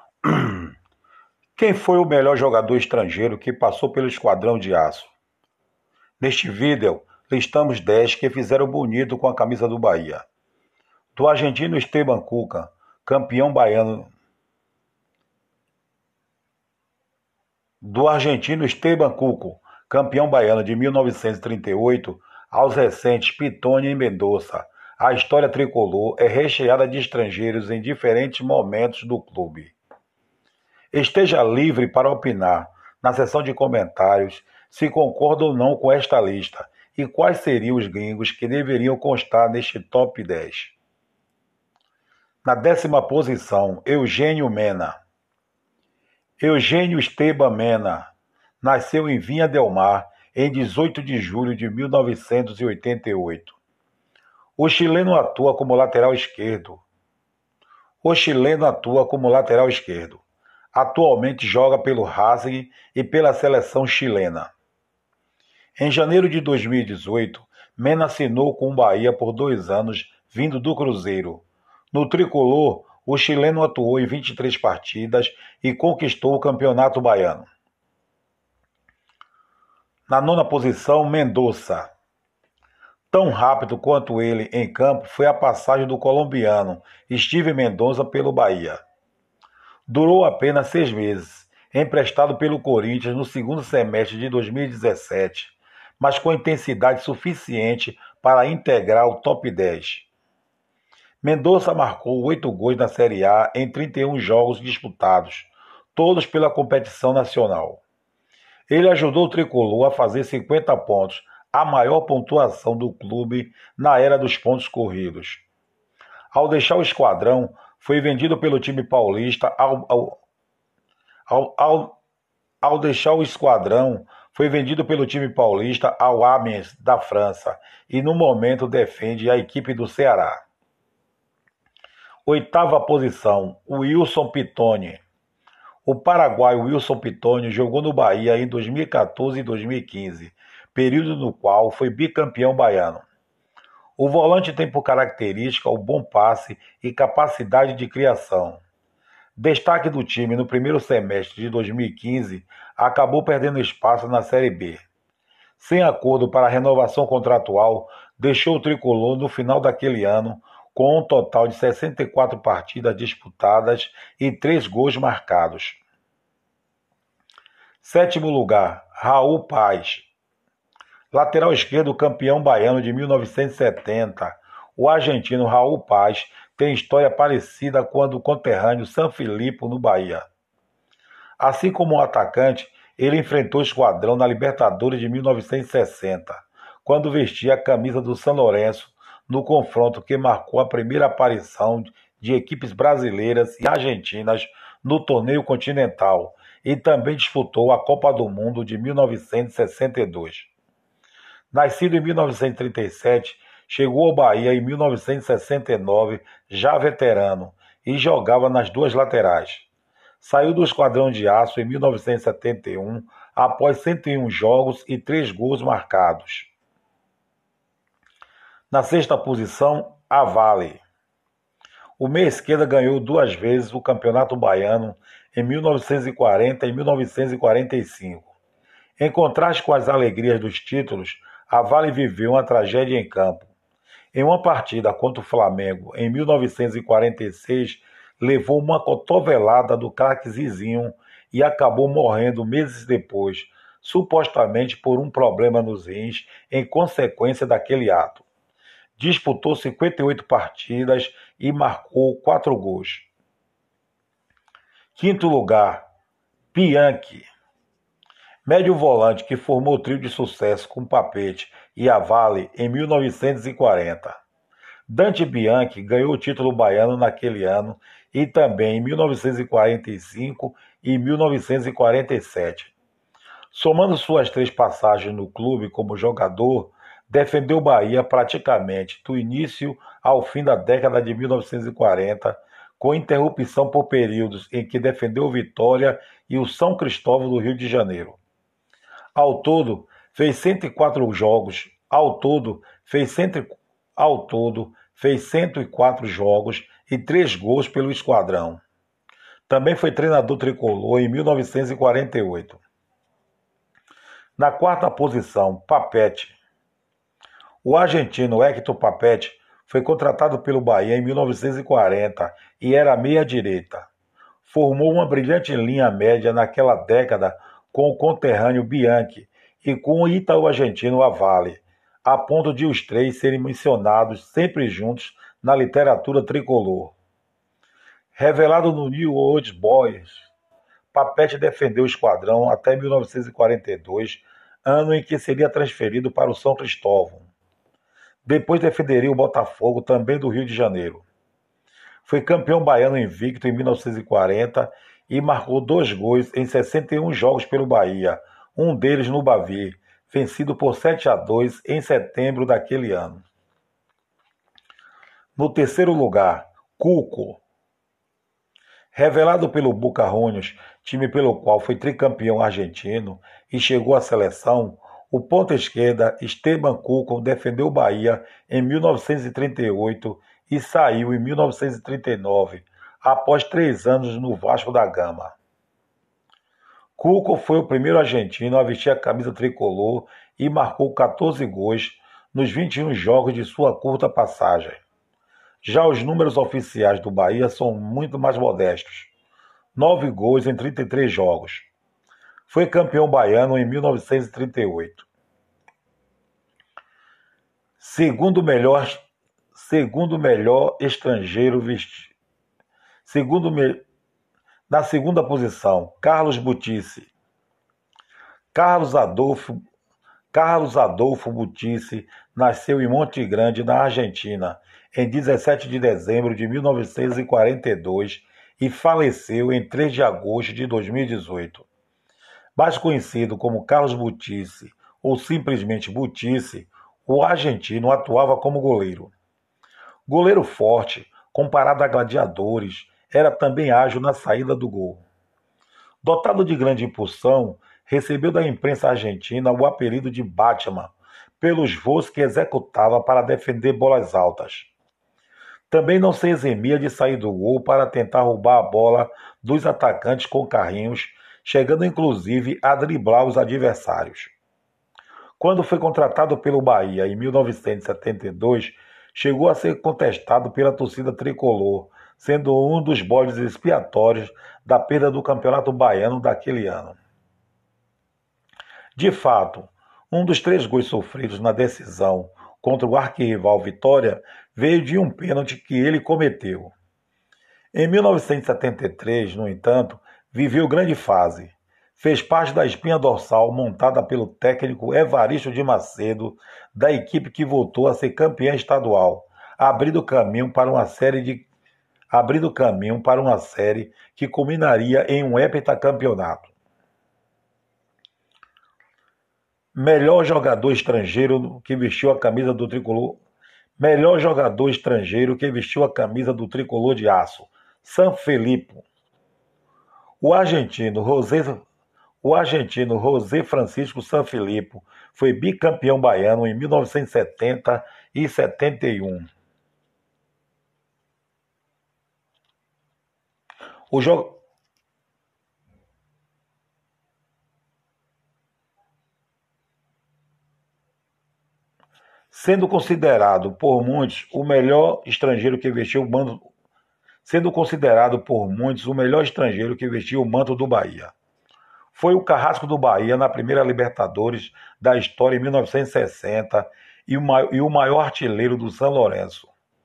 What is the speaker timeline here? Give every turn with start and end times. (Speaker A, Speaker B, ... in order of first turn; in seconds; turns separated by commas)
Speaker A: 0.2-0.6, Speaker A: 1.6-5.1, Speaker A: 6.2-10.2, Speaker A: 11.1-14.1, Speaker A: 17.8-29.7, Speaker A: 30.9-40.8, Speaker A: 42.4-45.0, Speaker A: 46.4-53.6, Speaker A: 54.6-56.8, Speaker A: 58.0-60.2, Speaker A: 60.7-64.5, Speaker A: 65.8-77.5, Speaker A: 80.1-81.9, Speaker A: 83.1-88.8, Speaker A: 89.9-100.1, Speaker A: 101.2-107.8, Speaker A: 108.7-115.4, Speaker A: 116.3-120.2, Speaker A: 121.3-122.0, Speaker A: 122.6-130.4, Speaker A: 132.2-135.0, Speaker A: 135.8-143.0, Speaker A: 144.0-148.6, Speaker A: 149.3-154.8, Speaker A: 155.6-165.8, Speaker A: 167.8-170.1, Speaker A: 171.1-180.3, Speaker A: 181.4-200.5, Speaker A: 201.5-209.7, Speaker A: 210.2-216.5, Speaker A: 218.7-220.8, Speaker A: 222.0-228.3, Speaker A: 229.0-233.5, Speaker A: 234.1-248.2, Speaker A: 249.0-253.1, Speaker A: 254.9-255.8, Speaker A: 256.5-257.3, Speaker A: 258.4-264.2, Speaker A: 264.9-272.7, Speaker A: 273.5-288.2, Speaker A: 289.1-298.6, Speaker A: 299.5-302.6, Speaker A: 304.4-306.4, Speaker A: 307.6-313.9, Speaker A: 314.4-326.9, Speaker A: 328.1-330.3, Speaker A: 330.9-337.3, Speaker A: 338.2-341.1, Speaker A: 342.0-353.2, Speaker A: 355.4-357.4, Speaker A: 358.9-375.4, Speaker A: 376.9-384.8, Speaker A: 385.6-389.1, Speaker A: 389.8-391.7, Speaker A: 392.5-395.1, Speaker A: 397.8-402.1, Speaker A: 403.0-403.8, Speaker A: 404.7-407.1, Speaker A: 408.5-409.6, Speaker A: 410.3-421.7, Speaker A: 422.6-429.1, Speaker A: 430.1-435.0, Speaker A: 436.0-444.7, Speaker A: 445.7-454.3, Speaker A: 455.4-467.0, Speaker A: 468.9-476.7, Speaker A: 477.7-491.5, Speaker A: 492.1-496.5, Speaker A: 499.7-503.2, Speaker A: 503.8-508.8, Speaker A: 510.2-511.6, Speaker A: 512.2-519.3, Speaker A: 523.9-524.4, Speaker A: 532.3-536.5, Speaker A: 537.2-541.1, Speaker A: 541.9-549.5